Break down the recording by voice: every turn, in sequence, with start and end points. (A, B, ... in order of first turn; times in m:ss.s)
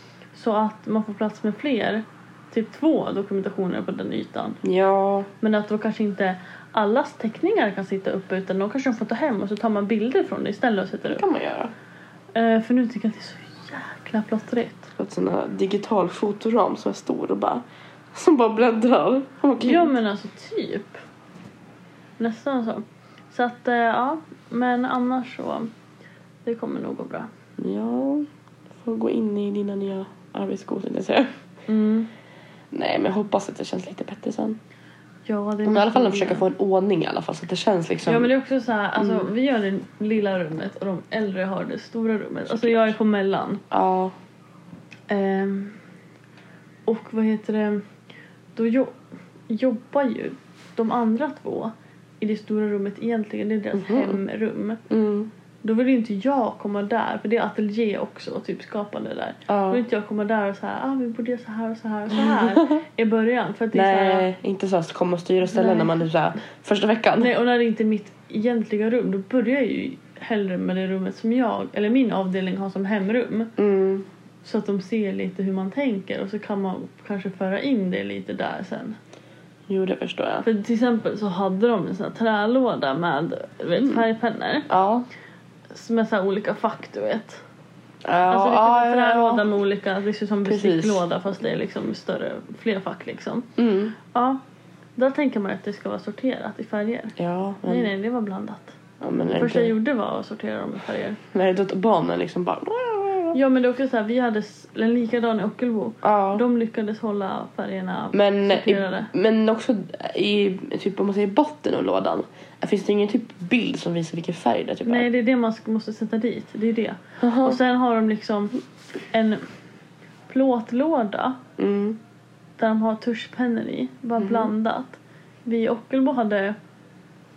0:00.3-0:04.6 A
0:04.6-0:05.3 B
0:05.4-0:11.2 A
0:11.1-0:11.7 B
0:12.3-0:14.9 A
0:15.0-0:19.9 B
0:19.6-0:21.0 A
0:22.2-0:25.7 A
0:26.4-0:27.3 A
0:27.6-0:31.3 B
0:31.7-0:32.1 A
0:32.7-0:34.6 B
0:35.3-0:36.5 A
0:35.6-0:38.3 B
0:38.0-0:43.6 A
0:39.0-0:39.2 B
0:42.5-0:42.9 B
0:43.7-0:44.1 B
0:45.1-0:45.8 A
0:46.9-0:47.8 A
0:48.6-0:49.0 A
0:49.5-0:54.8 A
0:53.7-0:54.2 B
0:54.9-0:55.3 B
0:55.6-1:04.3 A
0:59.5-0:59.8 B
1:02.1-1:02.8 B
1:03.7-1:07.3 B
1:05.4-1:06.0 A
1:07.2-1:13.5 A
1:13.6-1:14.1 B
1:14.4-1:19.0 A
1:19.7-1:20.4 B
1:20.4-1:24.7 A
1:23.8-1:24.0 B
1:24.7-1:25.1 B
1:25.7-1:27.4 A
1:28.0-1:29.4 B
1:28.3-1:33.5 A
1:30.4-1:31.0 B
1:33.6-1:33.9 B
1:34.1-1:34.4 A
1:35.0-1:37.1 A
1:37.2-1:37.9 B
1:37.6-1:38.8 A
1:39.0-1:39.7 B
1:39.3-1:41.2 A
1:41.3-1:43.4 B
1:43.3-1:49.1 A
1:46.0-1:46.4 B
1:48.1-1:55.1 B
1:54.8-1:58.6 A
1:57.2-1:57.6 B
1:59.1-1:59.4 A
2:00.3-2:01.4 A
2:01.6-2:02.0 B
2:02.6-2:06.5 A
2:04.2-2:04.5 B